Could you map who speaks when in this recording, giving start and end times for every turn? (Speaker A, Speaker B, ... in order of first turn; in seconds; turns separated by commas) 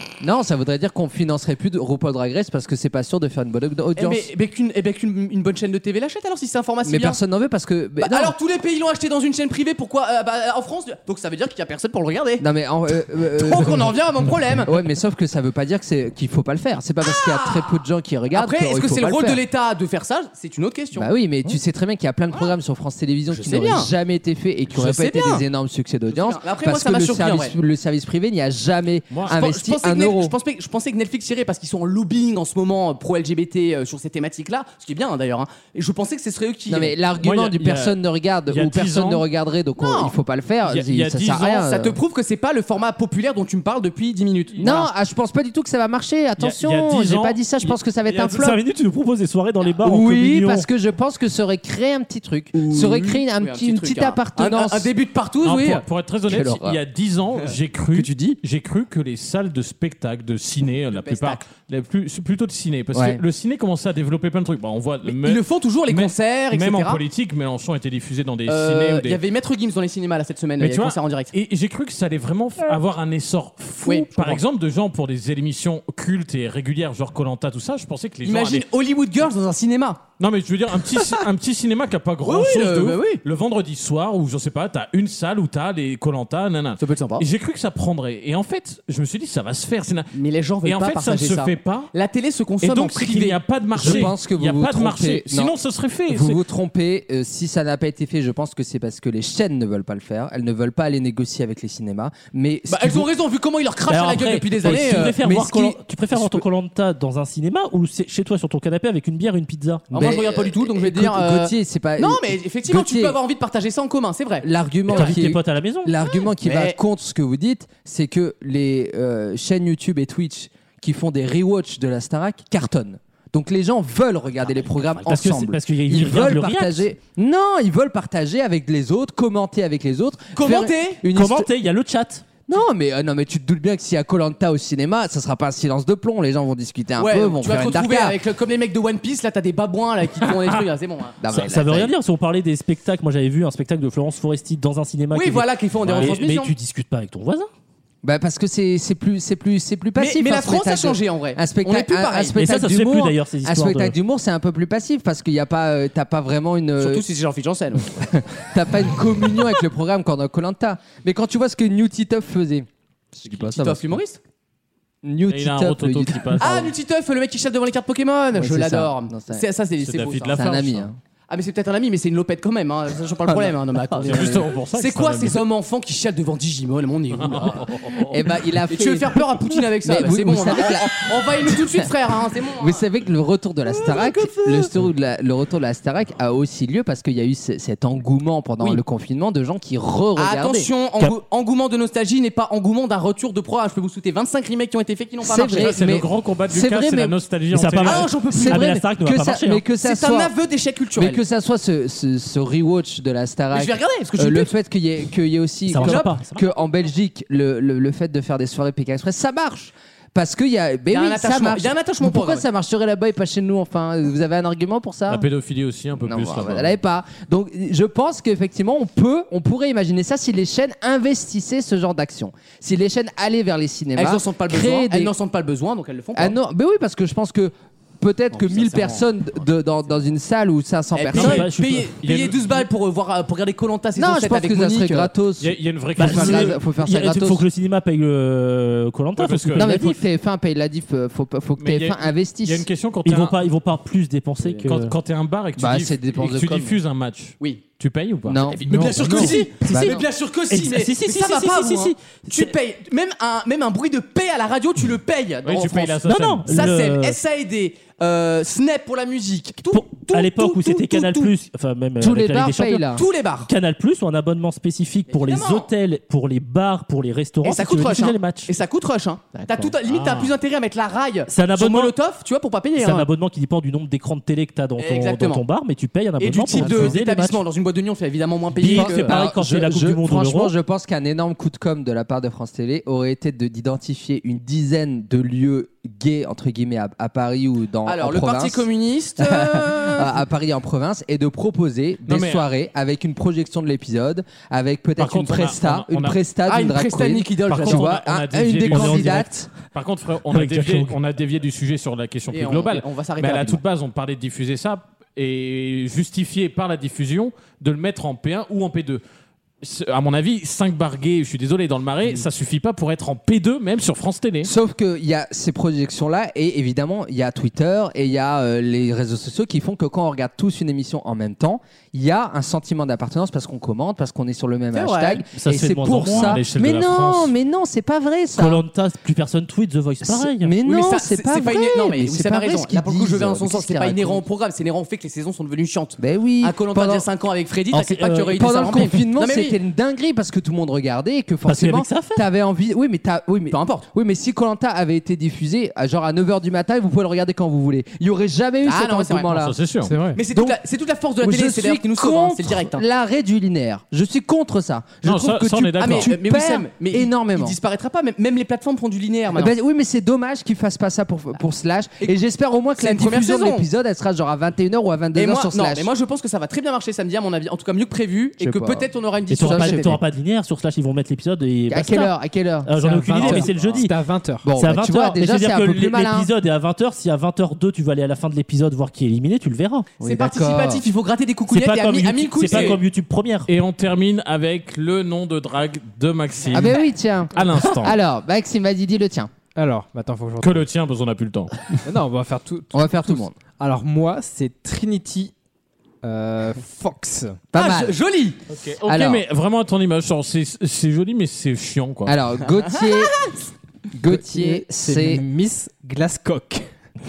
Speaker A: 0.2-4.3, Speaker B: 4.0-7.2, Speaker A: 6.8-8.3, Speaker B: 8.0-12.5, Speaker A: 12.4-13.9, Speaker B: 13.3-14.7, Speaker A: 14.7-19.4, Speaker B: 17.1-17.8, Speaker B: 18.3-21.1, Speaker A: 20.9-30.3, Speaker B: 23.3-23.9, Speaker B: 24.7-25.4, Speaker B: 26.1-27.6, Speaker B: 29.3-36.9, Speaker A: 36.7-42.0, Speaker C: 37.2-39.2, Speaker B: 39.8-40.1, Speaker C: 40.7-41.5, Speaker B: 41.3-44.9, Speaker A: 44.6-48.6, Speaker C: 46.4-47.4, Speaker D: 48.1-50.7, Speaker A: 49.8-54.9, Speaker B: 52.5-55.8, Speaker C: 55.4-69.2, Speaker A: 56.3-56.8, Speaker B: 57.5-58.4, Speaker B: 60.9-61.4, Speaker A: 62.9-63.2, Speaker B: 65.0-67.0, Speaker B: 68.5-71.3, Speaker C: 70.6-78.6, Speaker B: 73.8-74.4, Speaker B: 78.2-80.0, Speaker C: 80.2-90.1, Speaker B: 82.2-83.2, Speaker B: 86.8-87.2, Speaker B: 90.1-94.1, Speaker C: 90.6-91.9, Speaker C: 92.6-96.4, Speaker A: 93.7-95.5, Speaker A: 96.1-103.1, Speaker B: 102.7-105.2, Speaker D: 103.9-109.8, Speaker A: 104.6-106.4, Speaker A: 109.9-113.2, Speaker B: 109.9-115.2, Speaker A: 114.4-131.5, Speaker D: 114.9-115.9, Speaker B: 116.4-116.8, Speaker B: 124.4-125.0, Speaker D: 125.0-126.8, Speaker B: 130.3-131.0, Speaker D: 131.1-132.2, Speaker A: 132.5-138.2, Speaker B: 137.0-141.2, Speaker A: 141.2-141.9, Speaker D: 141.3-147.5, Speaker B: 145.1-146.5, Speaker C: 145.8-146.1, Speaker A: 148.0-157.0, Speaker B: 150.0-152.4, Speaker D: 152.3-154.0, Speaker B: 156.8-157.9, Speaker A: 157.9-164.0, Speaker B: 163.2-164.2, Speaker A: 165.0-166.7, Speaker C: 165.3-166.7, Speaker B: 166.4-170.4, Speaker A: 168.3-169.4, Speaker C: 169.8-170.9, Speaker A: 170.3-171.0, Speaker B: 171.3-177.9, Speaker A: 173.3-174.5, Speaker C: 174.0-175.4, Speaker C: 177.1-178.2, Speaker A: 178.0-181.9, Speaker B: 178.7-182.8, Speaker A: 182.6-190.7, Speaker B: 183.8-184.7, Speaker B: 190.2-195.8, Speaker A: 195.2-197.1, Speaker C: 195.6-198.1, Speaker D: 197.5-199.6, Speaker B: 197.8-198.6, Speaker A: 198.3-200.3, Speaker B: 199.8-201.2, Speaker A: 200.9-215.2, Speaker B: 203.5-204.5, Speaker D: 205.7-206.4, Speaker B: 205.8-206.1, Speaker B: 210.9-212.4, Speaker C: 215.1-216.8, Speaker A: 216.0-225.1, Speaker B: 223.9-226.3, Speaker A: 226.2-231.4, Speaker B: 228.3-229.1, Speaker B: 230.9-235.1, Speaker C: 231.1-232.6, Speaker D: 231.2-231.7, Speaker A: 233.9-237.4, Speaker C: 235.4-236.6, Speaker D: 236.0-239.9, Speaker C: 239.2-239.7, Speaker A: 239.5-242.7, Speaker C: 241.6-243.3, Speaker D: 243.0-244.9, Speaker C: 244.6-249.3, Speaker A: 245.6-246.8, Speaker A: 248.2-248.6, Speaker B: 248.4-261.3, Speaker E: 248.7-249.9, Speaker D: 249.0-252.5, Speaker A: 249.6-250.0, Speaker C: 255.4-256.6, Speaker D: 256.0-257.2, Speaker D: 259.7-268.5, Speaker A: 262.0-263.0, Speaker B: 262.9-263.5, Speaker B: 265.1-265.7, Speaker B: 267.4-273.1, Speaker A: 269.3-269.7, Speaker C: 269.9-270.4, Speaker D: 271.3-271.9, Speaker D: 272.8-277.4, Speaker B: 274.8-275.4, Speaker B: 276.2-279.2, Speaker A: 276.6-276.9, Speaker D: 278.6-280.5, Speaker A: 278.6-288.7, Speaker B: 287.8-290.2, Speaker A: 289.2-299.5, Speaker C: 292.1-292.5, Speaker C: 295.0-296.2, Speaker B: 296.5-297.9, Speaker C: 297.5-309.0, Speaker D: 298.7-299.3, Speaker D: 300.3-301.0, Speaker B: 302.3-303.6, Speaker C: 309.6-314.5, Speaker A: 314.4-328.6, Speaker B: 324.7-325.2, Speaker D: 325.3-326.4, Speaker C: 326.0-327.3, Speaker D: 328.3-330.5, Speaker A: 330.0-334.2, Speaker B: 330.6-339.6, Speaker A: 336.0-337.1, Speaker D: 337.7-338.9, Speaker A: 338.3-349.5, Speaker D: 341.4-342.2, Speaker B: 343.5-343.8, Speaker B: 348.6-349.4, Speaker C: 349.3-349.9, Speaker E: 349.8-350.2, Speaker B: 350.1-352.8, Speaker A: 350.3-350.6, Speaker A: 351.2-357.6, Speaker C: 355.0-356.1, Speaker B: 355.8-359.5, Speaker A: 359.3-365.9, Speaker B: 362.8-363.6, Speaker B: 365.1-370.0, Speaker A: 368.4-370.0, Speaker D: 369.3-372.1, Speaker A: 371.7-373.7, Speaker D: 372.6-373.9, Speaker E: 372.8-374.5, Speaker A: 374.4-376.3, Speaker D: 374.6-379.9, Speaker A: 380.0-380.9, Speaker B: 380.0-382.8, Speaker D: 381.5-383.5, Speaker C: 382.4-382.8, Speaker C: 383.5-386.8, Speaker A: 386.5-389.3, Speaker C: 387.3-387.9, Speaker E: 389.5-390.6, Speaker C: 390.4-391.6, Speaker E: 391.8-395.3, Speaker A: 392.7-393.4, Speaker E: 396.0-397.4, Speaker A: 397.5-397.9, Speaker B: 397.5-398.4, Speaker C: 398.5-402.1, Speaker A: 398.8-399.2, Speaker A: 402.1-403.2, Speaker B: 402.6-403.5, Speaker A: 403.9-405.2, Speaker E: 404.1-406.7